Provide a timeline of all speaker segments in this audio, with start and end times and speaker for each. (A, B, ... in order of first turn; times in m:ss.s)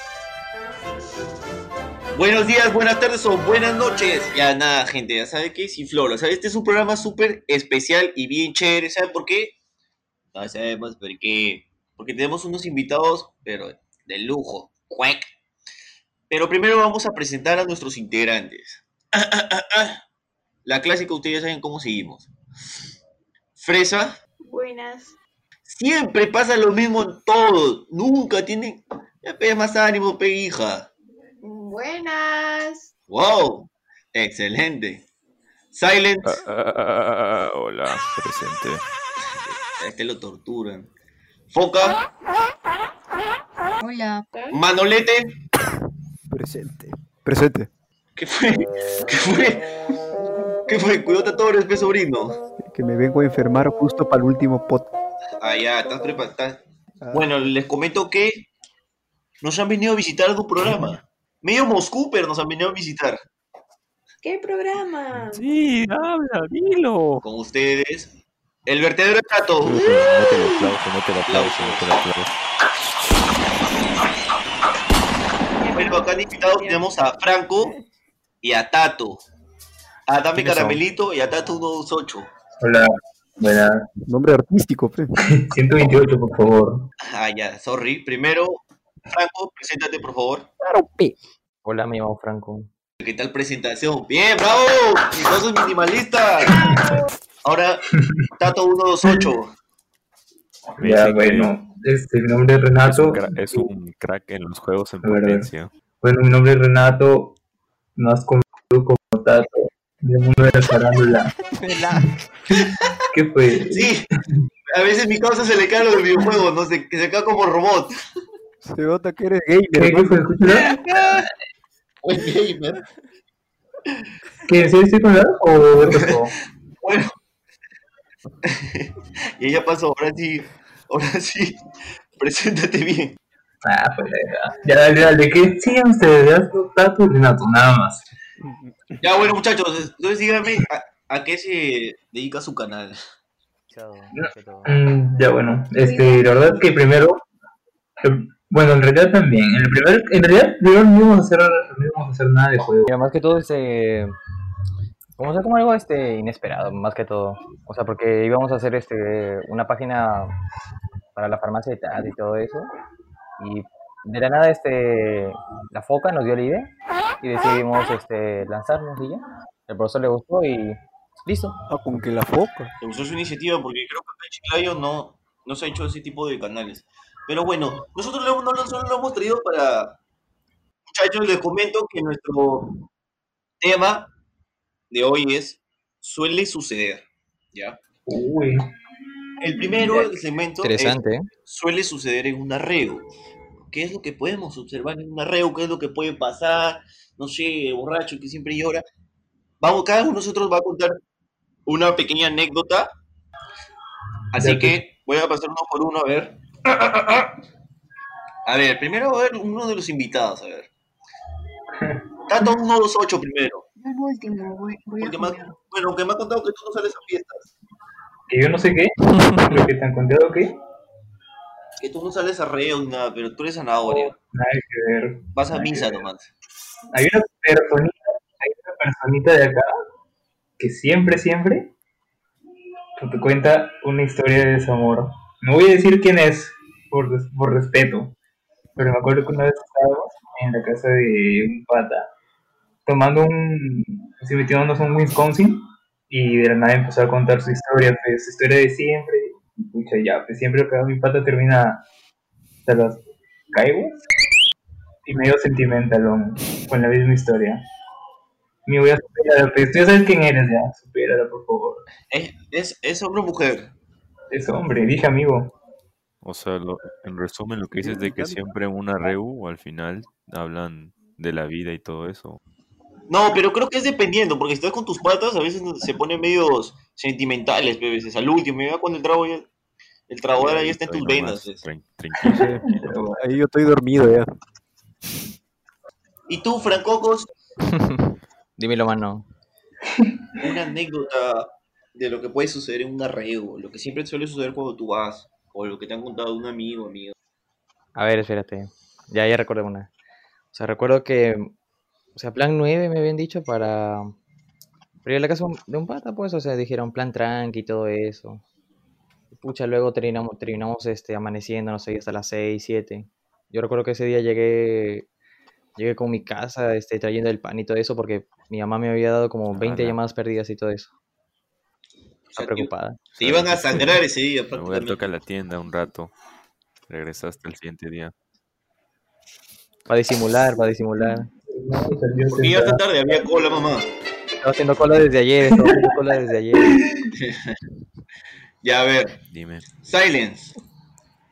0:02.1-0:09.6 A
0:10.3-0:15.3 A
0:16.3-0:20.0 A
0:20.6-0:22.3 A
0:23.6-0:24.2 A
0:24.4-0:25.2 B
0:25.7-0:30.9 A
0:31.4-0:32.9 B
0:33.1-0:35.1 A
0:35.7-0:36.4 A
0:36.2-0:38.8 C
0:39.3-0:40.9 A
0:41.5-0:42.0 A
0:43.8-0:44.3 D
0:44.3-0:44.6 B
0:44.5-0:45.3 A
0:46.3-0:47.7 E
0:48.2-0:49.6 A
0:50.7-0:52.4 A
0:52.6-0:54.9 E
0:55.4-0:58.5 A
0:57.0-0:57.5 E
0:59.4-1:03.2 A
1:04.2-1:05.4 B
1:05.1-1:07.2 C
1:07.2-1:08.1 A
1:08.6-1:10.3 A
1:09.6-1:12.3 C
1:11.3-1:12.0 A
1:15.6-1:16.9 B
1:15.7-1:17.8 A
1:18.4-1:19.2 A
1:20.1-1:22.3 A
1:20.4-1:20.8 F
1:22.6-1:23.9 G
1:24.1-1:25.1 E
1:25.4-1:26.9 G
1:27.0-1:30.5 A
1:31.6-1:32.7 F
1:33.0-1:36.6 A
1:36.5-1:37.1 B
1:37.4-1:37.8 A
1:38.4-1:39.5 A
1:40.8-1:43.7 G
1:40.8-1:41.5 C
1:42.8-1:45.7 C
1:45.0-1:45.5 G
1:46.0-1:47.4 G
1:48.0-1:51.4 G
1:51.6-1:52.2 E
1:52.7-1:52.9 A
1:53.1-1:54.0 G
1:53.7-1:54.1 A
1:54.7-1:58.0 A
1:58.6-2:00.2 E
1:59.7-2:01.4 G
2:00.5-2:01.3 A
2:02.0-2:02.8 A
2:04.5-2:06.3 G
2:05.8-2:07.1 A
2:08.4-2:11.6 A
2:12.2-2:13.2 A
2:13.6-2:18.0 G
2:18.4-2:19.2 E
2:19.0-2:23.0 A
2:23.7-2:24.8 F
2:24.2-2:27.2 G
2:25.8-2:26.6 B
2:28.0-2:32.9 G
2:32.9-2:34.1 F
2:35.2-2:40.3 F
2:41.2-2:42.7 F
2:43.4-2:51.6 F
2:51.7-2:52.7 E
2:52.8-3:00.0 A
3:00.9-3:02.7 A
3:03.6-3:04.1 A
3:04.9-3:07.8 A
3:08.1-3:08.6 G
3:09.4-3:13.1 A
3:09.5-3:10.2 G
3:10.6-3:11.3 F
3:13.7-3:18.8 A
3:19.6-3:21.0 A
3:21.7-3:22.9 A
3:24.3-3:27.3 A
3:24.4-3:24.8 G
3:28.5-3:30.7 A
3:31.8-3:32.0 G
3:32.3-3:33.7 A
3:33.8-3:35.6 D
3:35.0-3:37.5 A
3:38.3-3:40.6 G
3:41.8-3:44.2 A
3:43.8-3:46.1 G
3:45.4-3:46.3 A
3:46.9-3:49.7 G
3:50.6-3:51.7 G
3:53.0-3:58.2 G
3:58.8-4:02.1 G
4:02.9-4:11.8 G
4:12.7-4:14.0 G
4:15.1-4:17.6 G
4:18.7-4:21.8 G
4:22.1-4:23.7 A
4:24.3-4:25.5 G
4:26.2-4:32.4 C
4:27.7-4:28.4 E
4:33.1-4:39.5 A
4:40.1-4:41.6 A
4:40.3-4:42.9 C
4:42.2-4:43.2 G
4:42.3-4:44.3 E
4:46.3-4:47.3 A
4:48.6-4:49.3 F
4:50.0-4:50.5 G
4:50.4-4:57.1 A
4:58.0-4:59.9 F
5:00.5-5:01.5 F
5:02.2-5:04.2 F
5:05.0-5:08.4 F
5:09.3-5:15.1 F
5:15.8-5:20.9 F
5:19.5-5:20.0 C
5:22.3-5:25.1 A
5:22.4-5:23.0 F
5:23.2-5:24.0 C
5:24.5-5:26.1 C
5:26.9-5:28.1 C
5:29.9-5:31.3 F
5:31.5-5:32.8 G
5:32.3-5:33.9 A
5:34.4-5:36.8 F
5:35.5-5:35.9 G
5:36.6-5:37.1 G
5:37.1-5:37.6 A
5:38.6-5:39.2 A
5:39.3-5:39.7 C
5:39.8-5:40.6 A